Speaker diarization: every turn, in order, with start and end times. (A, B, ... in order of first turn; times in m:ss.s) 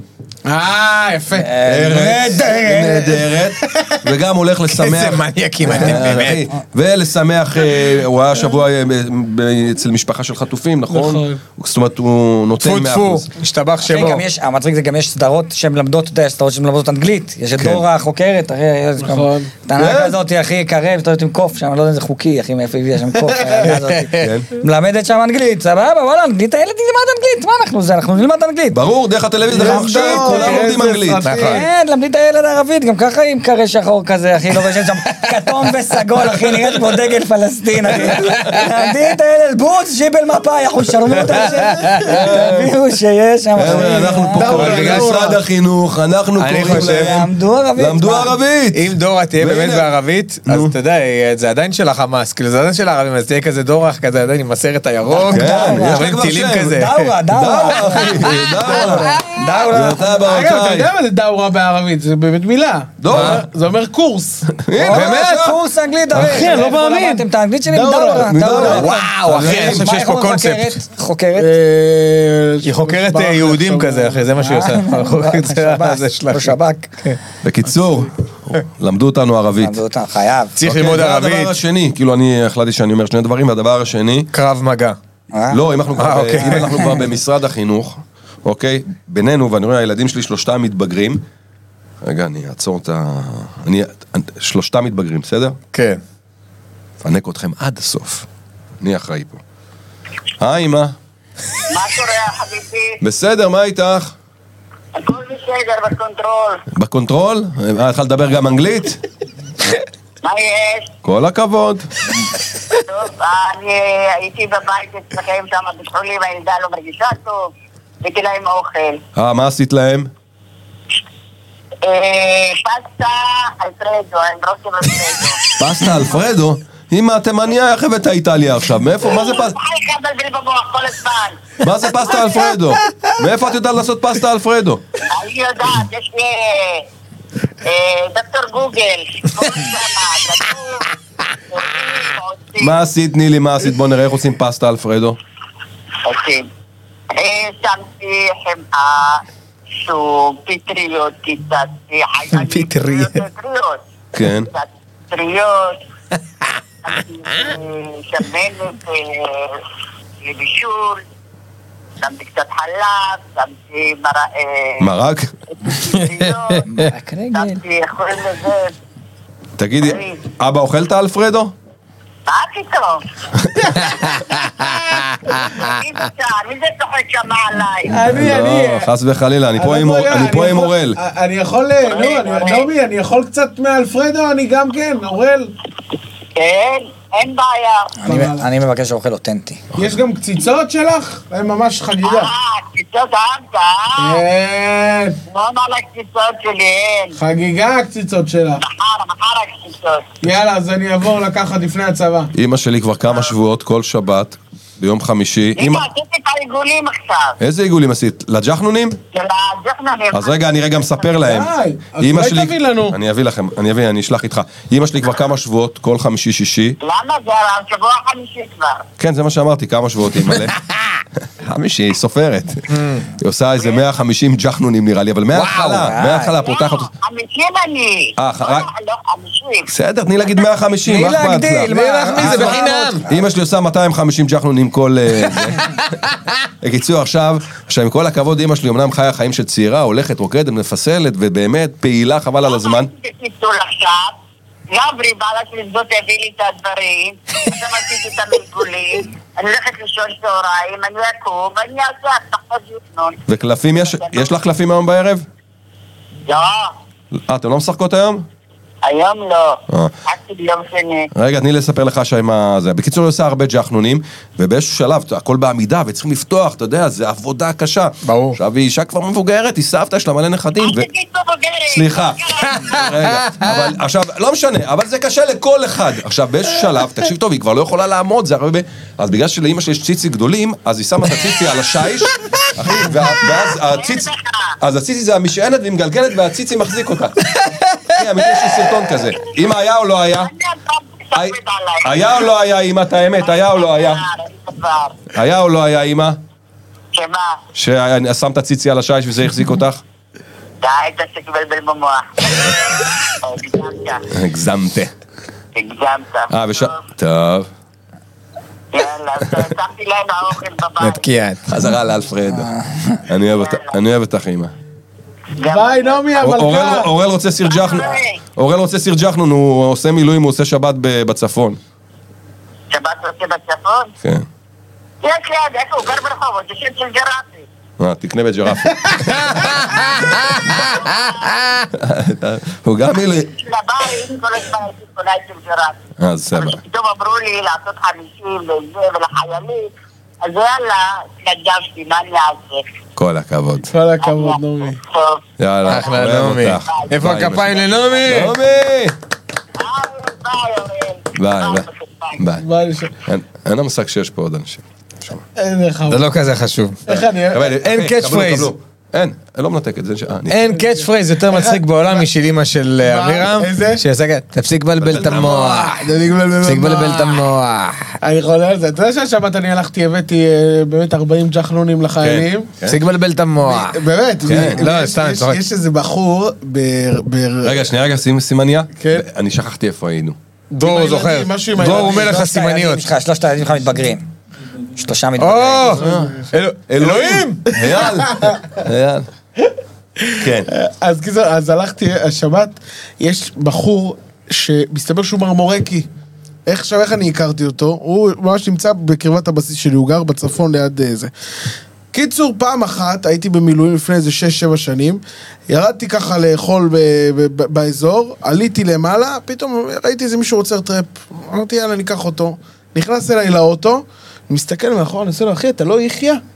0:00.5-0:01.6 A
0:01.4-0:03.2 B
0:01.6-0:13.3 C
0:04.7-0:06.5 D
0:10.9-0:11.4 A
0:12.6-0:14.2 D
0:13.8-0:28.8 B
0:17.6-0:17.8 C
0:19.0-0:19.5 A
0:19.8-0:20.2 C
0:24.0-0:24.3 D
0:24.1-0:24.5 C
0:28.7-0:31.2 C
0:29.5-0:31.7 A
0:29.6-0:30.7 B
0:31.2-0:31.6 D
0:31.3-0:45.0 B
0:38.2-0:38.7 D
0:41.3-0:42.2 D
0:42.0-0:42.8 C
0:43.6-0:49.9 C
0:43.7-0:45.4 A
0:44.5-0:45.1 D
0:46.4-0:47.2 D
0:46.6-0:48.3 B
0:48.7-0:57.2 D
0:50.5-0:50.7 C
0:55.1-1:00.1 B
0:55.3-1:00.9 C
0:58.2-0:59.2 D
0:58.8-0:59.1 A
1:00.2-1:04.5 A
1:03.0-1:03.5 C
1:03.1-1:03.4 D
1:04.5-1:05.6 C
1:04.8-1:11.5 B
1:04.9-1:05.4 D
1:06.1-1:07.2 D
1:06.4-1:06.8 A
1:07.7-1:08.8 A
1:08.2-1:09.9 C
1:08.6-1:10.8 D
1:11.4-1:14.3 A
1:12.6-1:17.2 D
1:14.4-1:17.0 B
1:17.4-1:19.8 C
1:19.6-1:20.6 B
1:20.6-1:21.5 D
1:20.6-1:24.3 C
1:24.3-1:25.0 D
1:25.3-1:25.6 B
1:25.5-1:31.2 C
1:26.0-1:26.8 D
1:32.0-1:35.6 C
1:35.7-1:36.0 D
1:37.0-1:38.3 C
1:38.8-1:39.4 C
1:40.4-1:41.0 C
1:41.7-1:43.0 E
1:43.0-1:44.1 C
1:45.0-1:46.6 E
1:46.7-1:49.0 C
1:50.2-1:50.9 E
1:51.0-1:51.9 C
1:52.7-1:59.0 E
1:59.2-2:00.1 C
2:01.8-2:05.5 E
2:05.6-2:09.6 C
2:09.0-2:12.3 E
2:11.6-2:14.8 C
2:15.1-2:16.9 E
2:17.6-2:20.9 E
2:21.5-2:22.8 E
2:22.6-2:25.2 C
2:26.0-2:26.5 E
2:27.1-2:29.2 E
2:29.8-2:35.8 E
2:32.3-2:33.2 D
2:34.1-2:34.5 C
2:36.8-2:39.6 E
2:40.2-2:41.0 E
2:42.0-2:44.9 E
2:44.8-2:45.3 C
2:45.6-2:46.7 E
2:46.0-2:46.9 D
2:46.7-2:47.6 B
2:47.3-2:48.7 E
2:49.6-2:51.5 C
2:49.8-2:50.2 E
2:52.3-2:53.0 E
2:53.4-2:53.7 C
2:54.0-2:58.0 E
2:57.9-2:58.9 A
2:58.0-3:01.0 C
2:59.6-3:05.5 A
3:01.8-3:02.7 E
3:06.4-3:08.0 E
3:08.0-3:09.6 B
3:08.1-3:08.5 A
3:09.8-3:12.3 A
3:12.0-3:14.2 E
3:14.0-3:15.2 A
3:15.3-3:17.2 E
3:17.2-3:18.6 A
3:18.6-3:20.1 E
3:20.2-3:22.3 A
3:22.3-3:25.9 C
3:25.6-3:27.4 E
3:27.4-3:29.0 C
3:29.1-3:30.5 E
3:30.1-3:36.8 C
3:31.2-3:33.0 A
3:36.8-3:38.9 E
3:39.0-3:40.6 C
3:41.4-3:46.9 C
3:42.7-3:43.1 D
3:45.3-3:45.9 D
3:45.7-3:46.3 B
3:46.3-3:49.7 E
3:48.2-3:48.7 C
3:49.7-3:55.9 C
3:50.9-3:53.1 B
3:51.7-3:53.0 D
3:56.6-4:02.9 C
4:02.5-4:04.2 E
4:04.7-4:13.2 E
4:13.3-4:15.3 C
4:13.8-4:14.4 E
4:16.3-4:16.7 E
4:17.1-4:18.3 C
4:18.8-4:21.1 E
4:21.1-4:30.9 C
4:28.0-4:28.4 D
4:30.6-4:32.8 E
4:31.7-4:47.3 C
4:33.1-4:33.7 D
4:43.6-4:44.6 E
4:47.9-4:50.3 C
4:50.1-4:52.2 E
4:51.1-4:54.0 C
4:53.2-4:55.1 E
4:55.1-4:56.2 C
4:56.9-4:57.4 E
4:57.6-4:59.8 C
5:00.6-5:04.0 E
5:04.1-5:04.9 C
5:05.6-5:06.8 E
5:06.3-5:07.5 C
5:08.7-5:11.1 E
5:10.8-5:11.4 D
5:11.5-5:12.5 C
5:12.4-5:13.0 B
5:13.1-5:14.5 C
5:13.3-5:13.8 E
5:15.4-5:16.2 E
5:15.5-5:16.9 A
5:16.2-5:21.6 C
5:17.4-5:18.2 E
5:22.7-5:23.9 E
5:25.0-5:27.5 E
5:27.8-5:29.7 C
5:29.1-5:31.7 D
5:30.4-5:31.4 E
5:31.7-5:33.3 C
5:33.0-5:35.8 E
5:36.0-5:36.6 C
5:36.3-5:42.7 E
5:43.0-5:43.7 C
5:43.7-5:44.8 A
5:44.0-5:46.1 E
5:45.4-5:49.0 C
5:45.7-5:48.4 D
5:46.6-5:46.9 E
5:49.6-5:52.3 E
5:51.2-5:52.4 C
5:52.4-5:52.9 A
5:53.1-5:55.2 C
5:55.4-5:56.1 A
5:55.9-5:56.8 D
5:56.9-5:57.4 A
5:56.9-6:00.5 C
5:57.6-5:58.5 D
6:00.3-6:05.9 D
6:00.7-6:02.0 A
6:02.8-6:03.8 A
6:04.8-6:05.5 C
6:05.0-6:07.2 A
6:06.4-6:08.0 D
6:08.0-6:12.5 A
6:12.0-6:12.8 C
6:12.7-6:15.4 D
6:13.4-6:17.6 A
6:14.2-6:14.6 C
6:17.4-6:20.2 C
6:18.8-6:19.1 A
6:20.5-6:22.8 D
6:20.6-6:22.2 A
6:21.7-6:24.0 B
6:24.8-6:25.8 B
6:25.2-6:27.5 D
6:25.8-6:26.1 C
6:25.8-6:26.2 A
6:26.7-6:29.1 C
6:27.7-6:28.4 A
6:30.0-6:35.9 A
6:30.2-6:30.5 C
6:36.5-6:41.1 A
6:41.9-6:56.2 A